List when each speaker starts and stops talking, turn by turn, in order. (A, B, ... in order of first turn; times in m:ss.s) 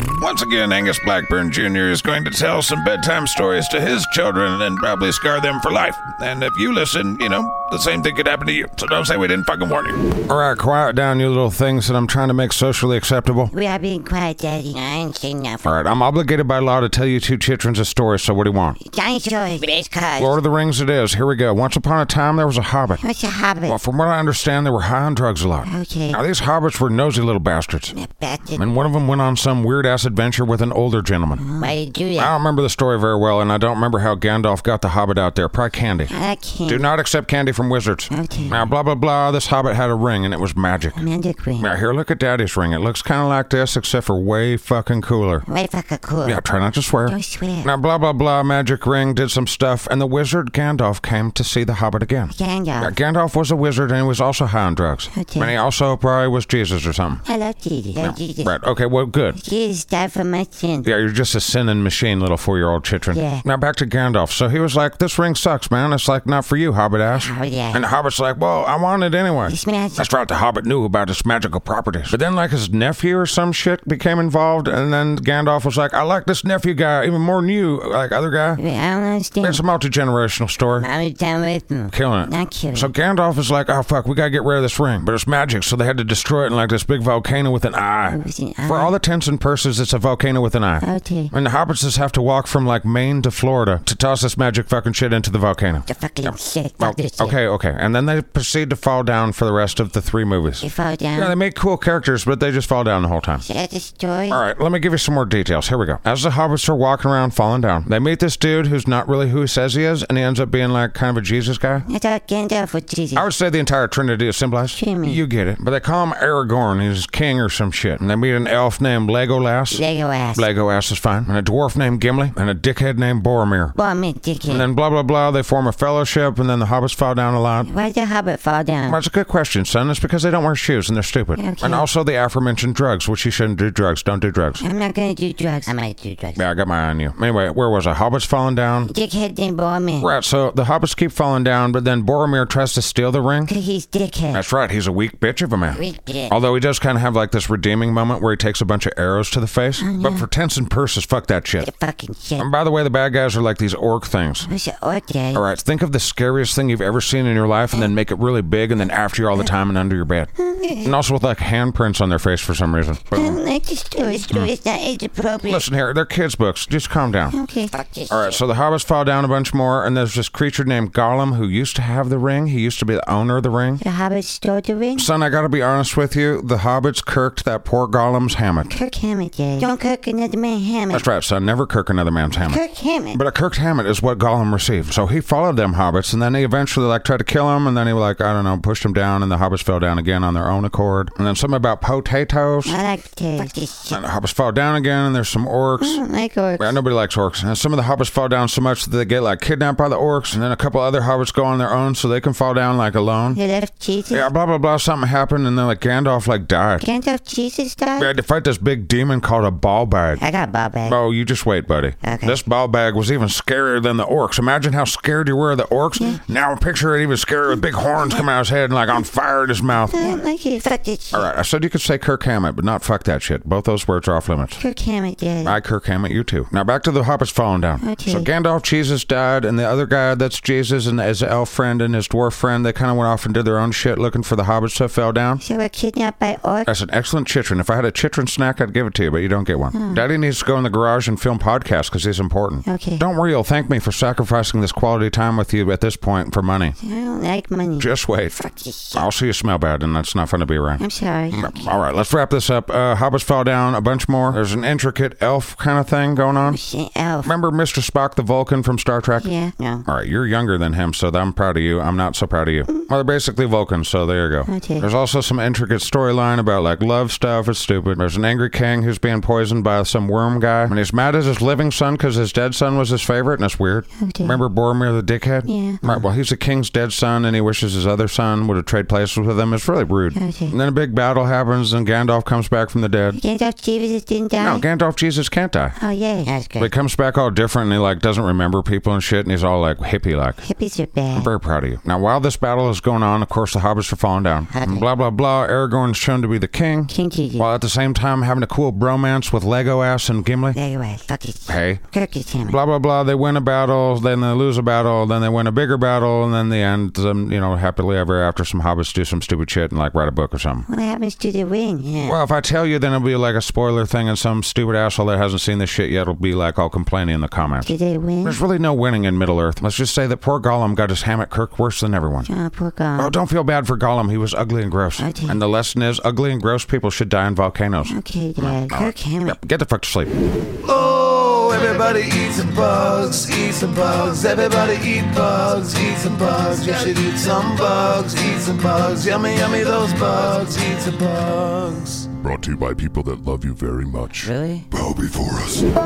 0:00.1-0:10.0 A
0:10.3-0:13.5 B
0:13.5-0:15.7 C
0:15.6-0:18.8 B
0:18.8-0:20.3 C
0:20.2-0:23.0 B
0:23.0-0:23.8 C
0:23.6-0:27.9 B
0:25.6-0:26.2 C
0:27.9-0:28.6 C
0:28.5-0:36.1 B
0:31.4-0:32.3 C
0:36.1-0:36.8 C
0:36.6-0:41.0 B
0:38.1-0:38.6 C
0:40.9-0:41.7 C
0:41.6-0:45.4 B
0:45.5-0:46.4 C
0:46.2-0:57.2 B
0:47.0-0:47.7 C
0:52.3-0:52.9 C
0:55.1-0:55.5 C
0:57.2-0:58.5 C
0:58.0-0:59.4 B
0:59.3-1:00.9 C
1:00.8-1:18.6 B
1:03.1-1:03.4 C
1:07.1-1:07.8 C
1:09.4-1:10.1 C
1:18.6-1:19.6 C
1:19.4-1:20.9 B
1:20.8-1:22.9 C
1:21.9-1:43.4 B
1:28.1-1:28.9 C
1:30.8-1:31.3 C
1:35.9-1:37.3 C
1:40.6-1:41.3 C
1:43.4-1:44.4 C
1:44.3-1:51.8 B
1:51.9-1:53.2 C
1:53.1-2:03.7 B
1:54.7-1:55.2 C
1:59.7-2:00.4 C
2:03.7-2:04.7 C
2:04.4-2:07.7 B
2:07.6-2:09.0 C
2:08.8-2:14.6 B
2:11.4-2:11.8 C
2:14.6-2:16.4 C
2:16.4-2:18.9 B
2:18.9-2:20.1 C
2:20.0-2:23.5 B
2:23.4-2:24.4 C
2:24.3-2:31.7 B
2:25.7-2:26.3 C
2:29.8-2:30.2 C
2:31.6-2:32.5 C
2:32.4-2:34.5 B
2:34.4-2:35.4 C
2:35.3-2:43.4 B
2:40.4-2:40.9 C
2:43.1-2:45.6 C
2:45.4-2:47.4 B
2:47.3-2:48.4 C
2:48.1-2:53.8 B
2:53.8-2:55.1 C
2:55.0-2:58.7 B
2:58.7-3:01.0 C
3:00.9-3:02.6 B
3:02.3-3:03.2 C
3:03.1-3:12.7 B
3:12.6-3:14.0 C
3:13.9-3:16.0 B
3:15.8-3:16.7 C
3:16.6-3:23.4 B
3:23.3-3:24.3 C
3:24.1-3:26.9 B
3:26.8-3:28.1 C
3:28.0-3:30.2 B
3:30.2-3:31.0 C
3:30.8-3:40.2 B
3:32.0-3:32.4 C
3:39.9-3:41.2 C
3:41.1-3:44.6 B
3:44.6-3:45.6 C
3:45.4-3:55.4 B
3:47.8-3:48.3 C
3:55.4-3:56.7 C
3:56.6-4:06.7 B
3:59.7-4:00.0 C
4:02.6-4:03.0 C
4:06.8-4:09.0 C
4:07.8-4:08.4 B
4:08.9-4:16.6 B
4:10.8-4:11.7 C
4:16.5-4:17.3 C
4:17.2-4:19.3 B
4:19.2-4:19.8 C
4:19.9-4:43.2 B
4:24.4-4:24.9 C
4:34.0-4:34.4 C
4:35.4-4:36.0 C
4:40.1-4:40.5 C
4:43.1-4:44.6 C
4:44.4-4:45.8 B
4:45.8-4:46.7 C
4:46.6-4:50.4 B
4:50.4-4:51.3 C
4:51.1-5:00.6 B
4:54.5-4:54.8 C
4:56.9-4:57.5 C
5:00.5-5:02.6 C
5:01.5-5:01.8 B
5:02.4-5:10.6 B
5:10.7-5:12.2 C
5:12.0-5:22.3 B
5:17.6-5:18.4 C
5:22.3-5:23.1 C
5:22.9-5:30.1 B
5:25.0-5:25.4 C
5:27.9-5:29.4 C
5:30.6-5:42.1 D
5:42.2-5:45.7 E
5:44.2-5:44.6 C